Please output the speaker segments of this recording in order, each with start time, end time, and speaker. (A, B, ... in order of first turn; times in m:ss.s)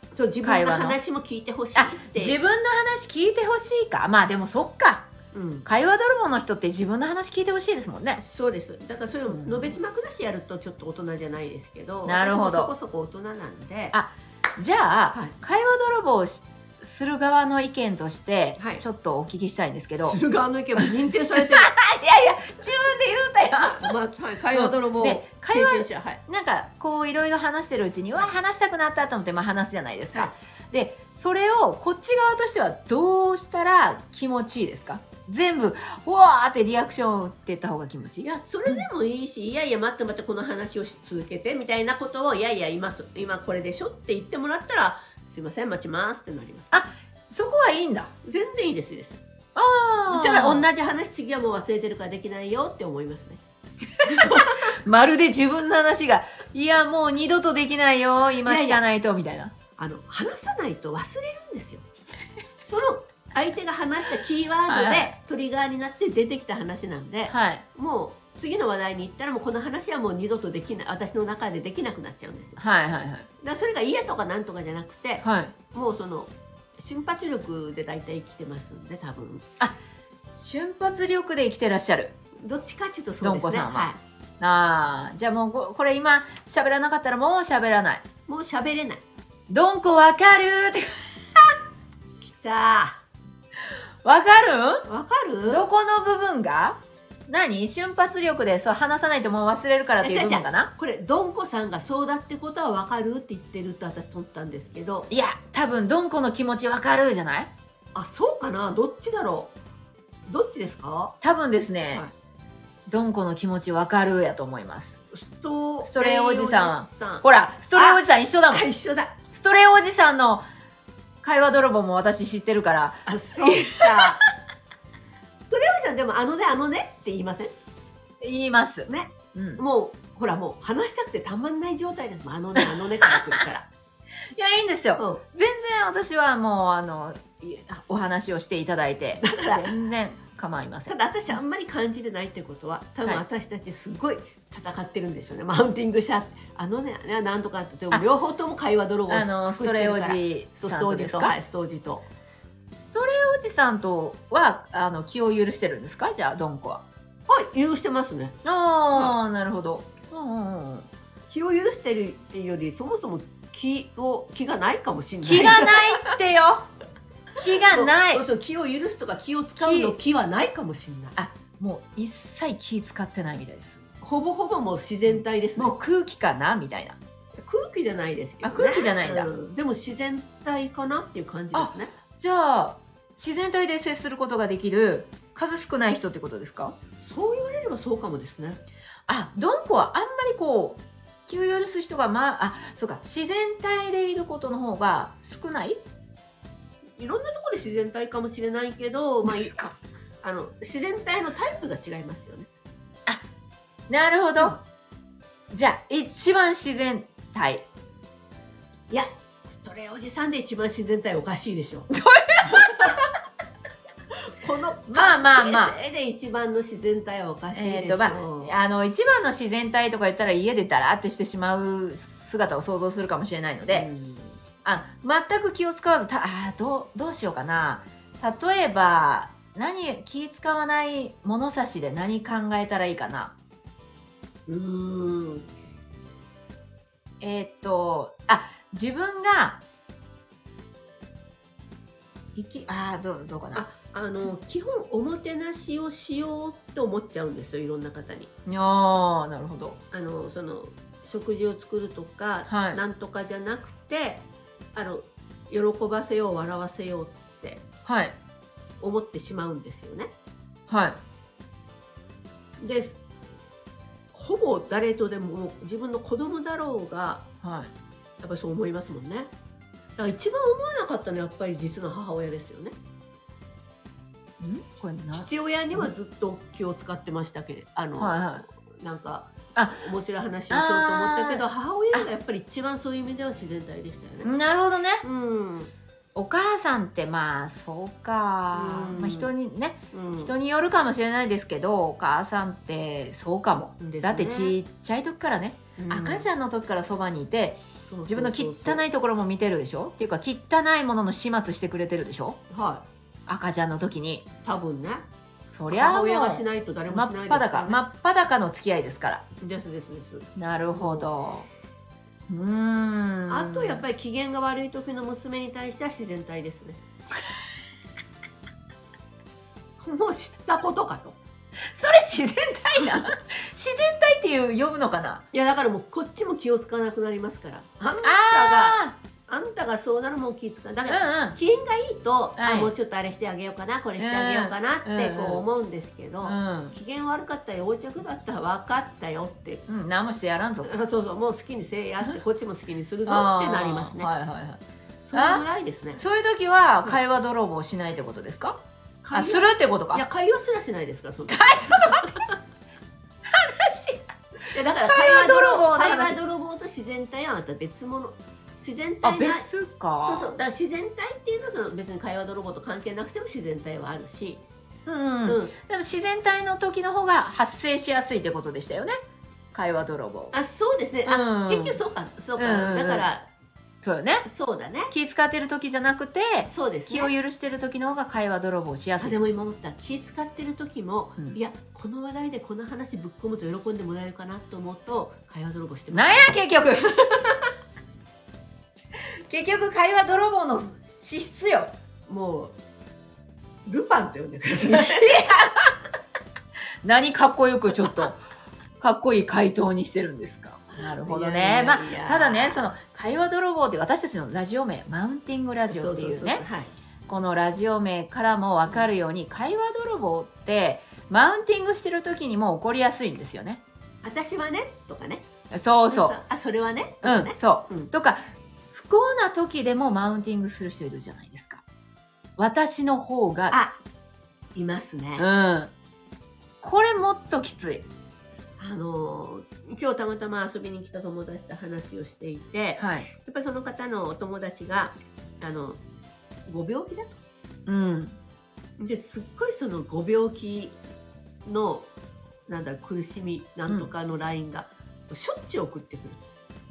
0:00.1-0:02.4 A
0:00.4-0:01.0 B
0:01.8-0:05.1 B
0:05.3-0:05.7 A
0:05.6-0:08.2 B
0:08.2-0:13.9 A
0:09.3-0:09.7 B
0:12.0-0:12.7 B
0:13.9-0:20.2 B
0:18.6-0:18.8 A
0:20.0-0:21.7 A
0:21.4-0:23.9 B
0:23.6-0:26.2 A
0:24.5-0:38.8 B
0:38.2-0:46.8 A
0:46.7-0:48.1 B
0:48.2-0:49.2 A
0:49.5-0:50.6 B
0:50.1-0:53.4 A
0:54.0-0:59.5 B
0:54.0-0:54.6 A
0:58.4-0:58.8 A
0:59.8-1:01.8 A
1:02.6-1:12.6 A
1:04.7-1:05.1 B
1:07.3-1:07.6 B
1:12.6-1:13.3 B
1:13.4-1:19.4 A
1:15.2-1:15.5 B
1:20.4-1:22.1 B
1:22.4-1:24.0 A
1:23.2-1:28.0 B
1:28.3-1:29.0 A
1:29.5-1:31.5 B
1:32.2-1:33.0 A
1:34.0-1:34.8 B
1:34.8-1:35.6 A
1:35.4-1:40.7 B
1:40.0-1:45.1 A
1:45.1-1:47.5 B
1:47.9-1:49.5 A
1:50.3-1:51.1 A
1:51.2-1:52.0 B
1:52.9-1:54.9 B
1:55.1-1:59.2 A
1:55.8-1:58.7 B
1:59.3-2:00.4 B
2:01.2-2:04.2 B
2:03.1-2:04.2 A
2:05.5-2:07.5 A
2:08.2-2:09.6 B
2:08.9-2:13.7 A
2:14.3-2:20.9 B
2:15.0-2:15.2 A
2:19.2-2:19.8 A
2:20.9-2:32.0 A
2:29.1-2:31.3 B
2:32.8-2:36.8 B
2:37.3-2:38.4 A
2:38.4-2:40.9 B
2:41.3-2:46.1 A
2:45.2-2:46.7 B
2:47.4-2:48.2 B
2:47.5-2:51.1 A
2:49.6-2:50.0 B
2:51.2-2:53.8 B
2:54.0-2:55.7 A
2:55.1-2:57.0 B
2:57.4-3:01.9 A
2:58.4-2:59.3 B
3:01.5-3:06.8 B
3:07.0-3:08.6 A
3:09.1-3:15.8 B
3:17.0-3:19.7 A
3:19.2-3:19.7 B
3:20.2-3:22.5 A
3:23.9-3:24.6 B
3:25.5-3:27.6 B
3:28.9-3:31.9 A
3:31.9-3:32.9 B
3:32.4-3:33.0 A
3:34.2-3:38.5 A
3:34.9-3:35.8 B
3:37.5-3:43.9 B
3:43.7-3:44.3 A
3:44.6-3:53.3 B
3:54.5-3:55.5 A
3:57.2-3:59.6 B
4:02.4-4:03.6 B
4:03.5-4:08.3 A
4:08.5-4:09.8 B
4:09.9-4:17.6 A
4:12.5-4:12.8 B
4:17.8-4:18.1 B
4:18.8-4:20.1 A
4:20.7-4:21.0 B
4:22.6-4:23.0 A
4:24.1-4:27.3 A
4:27.4-4:27.7 B
4:28.2-4:29.3 A
4:30.0-4:32.8 A
4:34.4-4:35.9 B
4:35.1-4:44.3 A
4:38.0-4:38.4 B
4:39.6-4:39.8 B
4:40.5-4:42.1 B
4:44.2-4:45.0 B
4:45.0-4:45.7 A
4:46.1-5:02.4 B
4:48.5-4:49.3 A
4:49.9-4:50.3 A
4:53.8-4:54.6 A
4:55.8-4:56.3 A
4:57.9-4:58.8 A
5:02.5-5:02.8 A
5:03.3-5:04.2 B
5:04.4-5:05.1 A
5:05.5-5:09.2 B
5:05.7-5:07.8 A
5:09.4-5:11.1 A
5:10.4-5:11.5 B
5:12.3-5:13.8 B
5:13.3-5:16.8 A
5:19.8-5:21.2 A
5:21.7-5:25.2 B
5:25.3-5:39.6 A
5:27.8-5:29.0 B
5:30.9-5:31.4 B
5:32.4-5:32.7 B
5:34.0-5:35.4 B
5:36.2-5:36.8 B
5:39.7-5:40.7 B
5:40.6-5:44.1 A
5:43.1-5:44.6 B
5:45.0-5:46.0 A
5:45.1-5:45.4 B
5:46.0-5:48.6 B
5:49.0-5:52.2 A
5:49.1-5:50.0 B
5:51.3-5:52.3 B
5:53.2-5:54.1 B
5:54.5-5:59.5 A
5:54.8-5:56.2 B
5:59.0-6:00.3 B
6:00.0-6:04.4 A
6:04.8-6:09.0 B
6:05.2-6:05.5 A
6:09.5-6:10.3 B
6:10.3-6:13.3 A
6:11.0-6:11.8 B
6:12.4-6:13.1 B
6:13.8-6:14.2 B
6:14.2-6:14.9 A
6:14.9-6:19.2 B
6:16.5-6:17.1 A
6:19.0-6:27.4 A
6:25.9-6:26.9 B
6:29.3-6:31.7 B
6:32.1-6:32.6 A
6:33.7-6:35.2 A
6:34.6-6:35.7 B
6:36.8-6:38.2 B
6:38.8-6:46.4 B
6:40.7-6:42.6 A
6:45.7-6:46.7 A
6:47.1-6:53.6 B
6:54.0-6:55.3 A
6:55.5-6:56.2 B
6:55.9-6:57.9 A
6:57.0-7:01.6 B
7:02.4-7:03.6 B
7:03.5-7:03.8 A
7:04.5-7:05.3 A
7:05.2-7:05.7 B
7:06.6-7:07.8 B
7:08.6-7:15.8 A
7:12.8-7:13.1 B
7:16.5-7:17.2 A
7:17.6-7:18.2 B
7:18.8-7:20.8 A
7:21.4-7:21.9 A
7:22.5-7:26.2 A